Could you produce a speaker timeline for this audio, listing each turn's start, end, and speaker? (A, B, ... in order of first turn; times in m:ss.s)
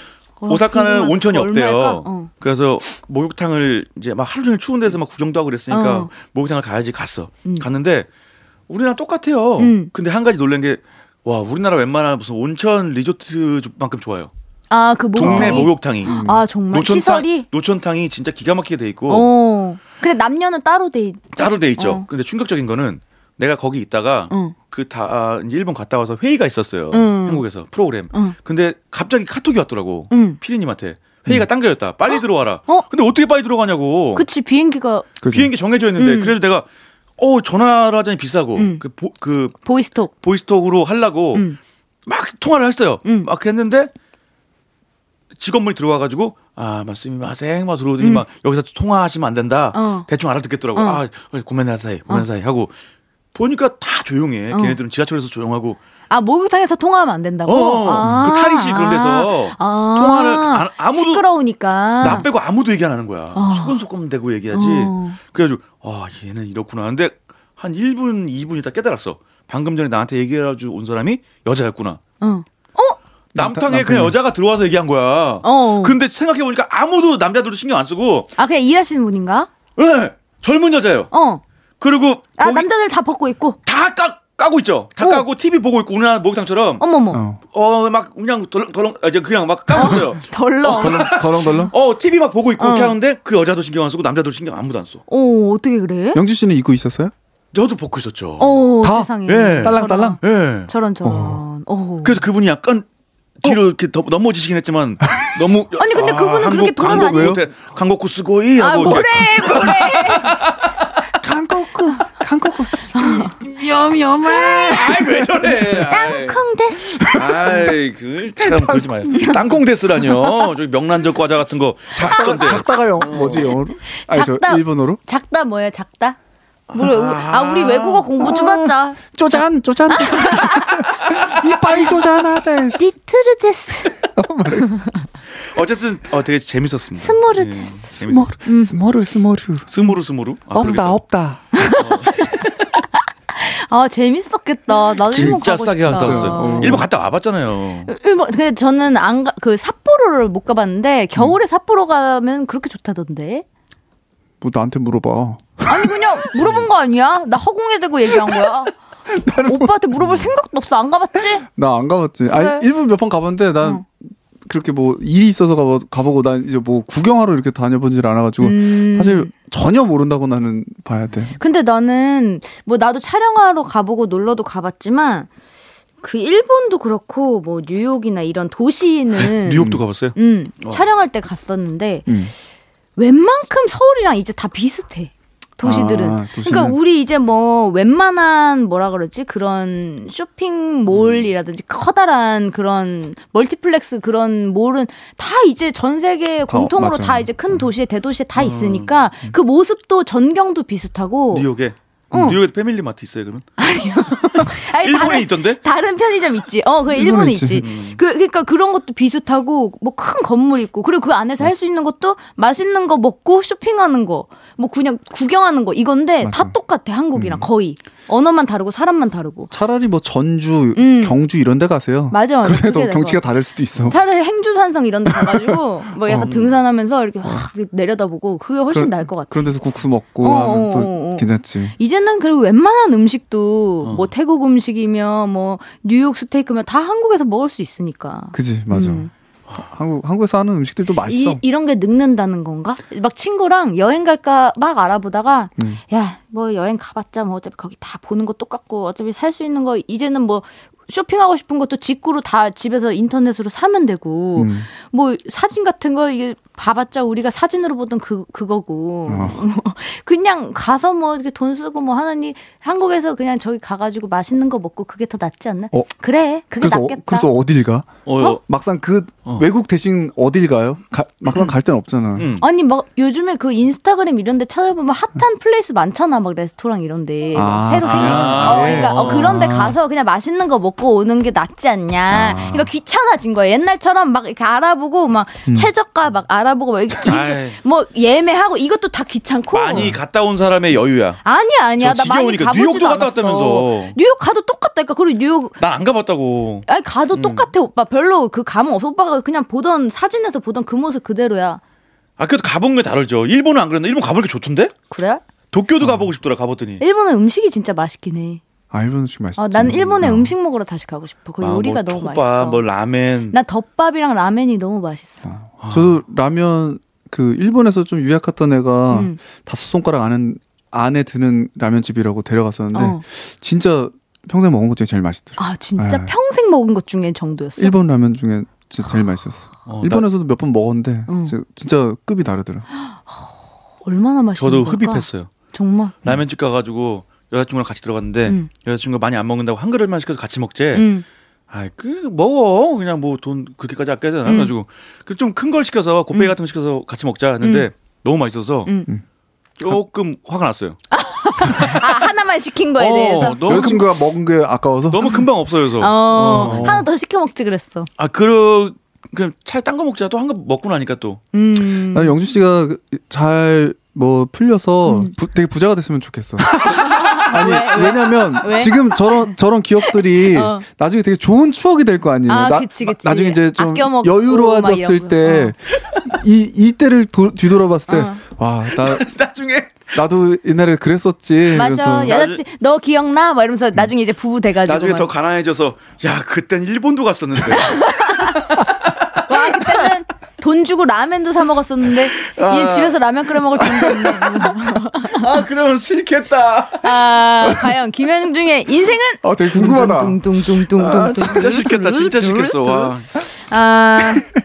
0:00.4-0:02.3 A
0:00.5-0:08.1 B
0:05.7-0:06.1 A
0:08.7-0:14.3 B
0:09.6-0:09.9 A
0:14.7-0:17.4 A
0:15.1-0:19.3 B
0:15.2-0:16.4 C
0:19.1-0:22.0 A
0:21.4-0:34.2 B
0:24.3-0:24.5 A
0:26.9-0:27.4 A
0:30.1-0:30.4 A
0:32.1-0:32.8 A
0:34.1-0:35.1 A
0:35.2-0:35.5 C
0:35.3-0:36.6 B
0:36.0-0:36.3 A
0:37.2-0:39.6 B
0:38.6-0:38.8 A
0:39.6-0:40.1 A
0:40.2-0:41.4 B
0:42.1-0:43.9 B
0:43.0-0:43.3 A
0:45.4-0:52.7 B
0:49.7-0:50.1 A
0:50.8-0:51.0 A
0:53.3-0:55.8 B
0:54.5-0:54.8 A
0:56.1-1:02.3 A
0:57.4-1:01.2 B
1:02.0-1:12.0 B
1:03.3-1:03.8 A
1:04.5-1:05.2 A
1:12.2-1:13.0 A
1:13.3-1:14.2 C
1:13.3-1:18.3 B
1:15.4-1:16.0 A
1:18.4-1:19.5 A
1:19.8-1:21.1 B
1:21.1-1:21.4 A
1:21.8-1:22.7 B
1:22.4-1:23.6 A
1:23.6-1:26.8 B
1:25.0-1:25.2 A
1:26.8-1:27.2 A
1:27.1-1:27.4 C
1:27.5-1:35.0 B
1:29.7-1:31.7 A
1:30.7-1:31.7 C
1:32.6-1:32.9 A
1:35.1-1:36.2 A
1:36.1-1:37.1 C
1:37.5-1:38.6 B
1:38.4-1:42.2 A
1:38.8-1:40.2 C
1:39.3-1:40.7 B
1:41.0-1:41.4 C
1:42.0-1:42.8 B
1:43.4-1:50.7 B
1:45.8-1:47.4 A
1:46.8-1:47.4 C
1:48.6-1:50.3 A
1:51.2-1:55.8 C
1:52.8-1:53.3 A
1:54.3-1:54.8 A
1:54.6-1:56.4 B
1:55.9-1:57.1 A
1:56.9-1:57.7 C
1:57.1-2:03.3 B
1:58.4-1:59.1 C
1:59.1-1:59.4 A
2:01.9-2:05.0 C
2:02.0-2:06.2 A
2:06.7-2:08.1 B
2:06.7-2:09.0 A
2:08.2-2:12.9 C
2:09.9-2:10.9 A
2:12.8-2:13.9 A
2:14.0-2:14.8 C
2:15.4-2:18.4 B
2:17.0-2:17.9 A
2:18.0-2:19.7 C
2:18.4-2:18.7 A
2:19.7-2:21.0 B
2:20.5-2:21.6 C
2:21.5-2:26.8 A
2:21.7-2:22.4 B
2:25.1-2:27.9 B
2:25.1-2:26.9 C
2:27.9-2:33.4 A
2:34.4-2:36.6 C
2:35.6-2:38.8 A
2:38.1-2:38.5 C
2:39.1-2:40.3 C
2:39.4-2:41.4 A
2:41.4-2:51.4 C
2:42.3-2:42.6 A
2:48.4-2:49.3 A
2:51.4-2:55.3 A
2:56.0-3:02.1 A
2:59.2-3:00.9 B
3:02.1-3:02.3 C
3:03.0-3:21.5 A
3:05.6-3:06.8 C
3:11.0-3:11.2 B
3:16.5-3:17.5 C
3:18.5-3:18.9 B
3:21.3-3:23.5 B
3:22.1-3:22.4 A
3:23.6-3:39.5 A
3:24.4-3:25.6 B
3:26.9-3:27.7 C
3:27.6-3:28.0 B
3:36.2-3:36.6 C
3:37.1-3:37.4 C
3:39.5-3:44.0 C
3:40.7-3:41.2 A
3:42.1-3:43.2 A
3:43.8-3:49.5 A
3:45.1-3:46.3 C
3:46.2-3:46.6 B
3:48.7-3:51.7 C
3:50.2-3:59.1 A
3:58.3-3:59.0 C
3:59.6-4:01.4 C
4:01.0-4:27.3 A
4:14.4-4:14.7 C
4:19.1-4:19.4 C
4:26.6-4:32.3 C
4:28.0-4:28.4 B
4:32.2-4:32.4 B
4:32.4-4:50.0 A
4:37.3-4:39.8 C
4:37.8-4:39.3 B
4:42.1-4:42.7 C
4:47.0-4:47.6 B
4:49.5-4:51.2 B
4:51.2-4:55.5 A
4:51.8-4:54.0 B
4:55.6-4:57.5 B
4:56.7-5:01.6 A
5:02.2-5:04.8 B
5:04.9-5:05.2 A
5:05.5-5:06.8 B
5:06.8-5:08.4 A
5:08.7-5:10.3 C
5:09.4-5:12.6 A
5:11.4-5:13.4 B
5:13.3-5:15.3 A
5:15.3-5:26.1 C
5:15.6-5:16.0 B
5:18.9-5:19.2 A
5:22.7-5:23.0 A
5:25.4-5:27.8 A
5:27.6-5:32.6 C
5:29.6-5:30.0 B
5:31.1-5:31.3 A
5:32.7-5:35.9 A
5:34.4-5:35.3 B
5:36.0-5:40.9 B
5:40.7-5:41.0 A
5:41.5-5:48.7 B
5:44.2-5:44.5 A
5:47.4-5:47.7 A
5:49.6-5:50.8 B
5:50.9-5:53.9 A
5:51.5-5:52.0 B
5:52.8-5:53.9 B
5:53.4-5:55.2 C
5:54.9-5:56.8 B
5:55.8-5:57.9 A
5:56.2-5:56.9 C
5:58.0-6:01.2 B
6:01.3-6:02.2 A
6:01.9-6:19.1 C
6:04.8-6:05.1 A
6:06.5-6:10.6 A
6:12.3-6:15.5 A
6:17.9-6:18.2 A
6:18.7-6:19.9 B
6:19.9-6:22.2 C
6:21.5-6:25.1 A
6:22.1-6:22.4 B
6:24.6-6:29.9 B
6:27.5-6:28.4 A
6:29.2-6:35.3 A
6:32.0-6:34.5 B
6:35.0-6:37.4 B
6:36.8-6:44.2 A
6:39.2-6:40.2 C
6:40.7-6:43.1 B